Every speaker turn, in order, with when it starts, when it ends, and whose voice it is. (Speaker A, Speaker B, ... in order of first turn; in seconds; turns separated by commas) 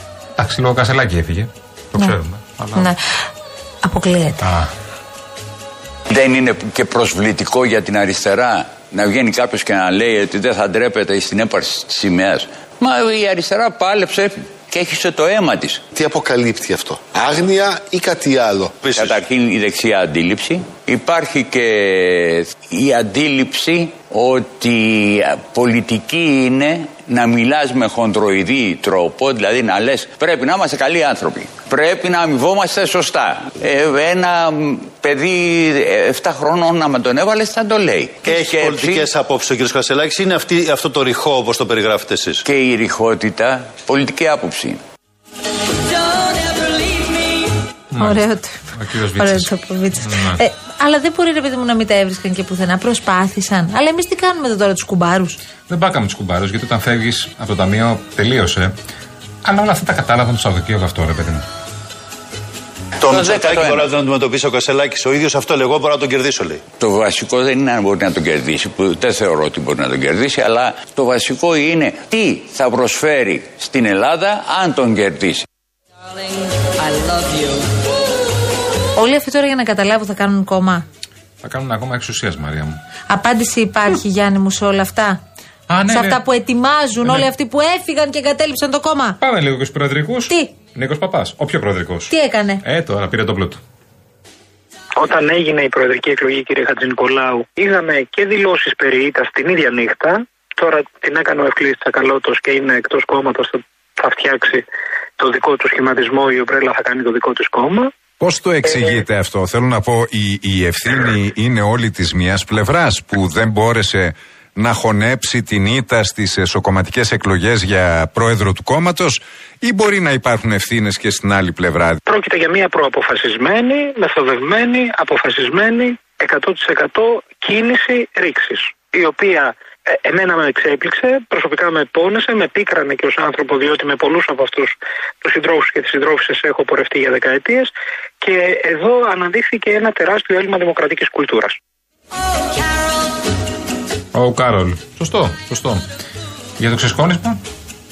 Speaker A: 0.4-2.9, Speaker B: 3.8-4.4, Speaker A: 4.4-4.7, Speaker C: 6.1-15.8, Speaker D: 15.9-19.2, Speaker C: 18.9-39.1, Speaker D: 38.3-39.1, Speaker E: 38.4-42.3, Speaker D: 41.5-42.3, Speaker C: 42.4-44.8, Speaker A: 47.9-49.5, Speaker B: 48.0-55.4, Speaker A: 50.0-50.4, Speaker A: 55.7-58.7, Speaker A: 59.4-61.4, Speaker C: 63.0-63.9, Speaker D: 63.1-63.9, Speaker E: 63.1-66.6, Speaker C: 66.8-75.4, Speaker B: 79.0-80.8, Speaker A: 81.4-82.8, Speaker B: 83.1-85.2, Speaker A: 85.7-86.2, Speaker B: 85.9-89.2, Speaker A: 89.2-92.1, Speaker B: 92.1-92.6, Speaker A: 92.6-93.6, Speaker F: 95.0-104.6, Speaker F: 105.2-107.9, Speaker G: 108.2-122.0, Speaker F: 122.1-129.5, Speaker F: 130.0-137.7, Speaker F: 138.2-141.6, Speaker A: 144.1-145.8, Speaker A: 146.6-147.4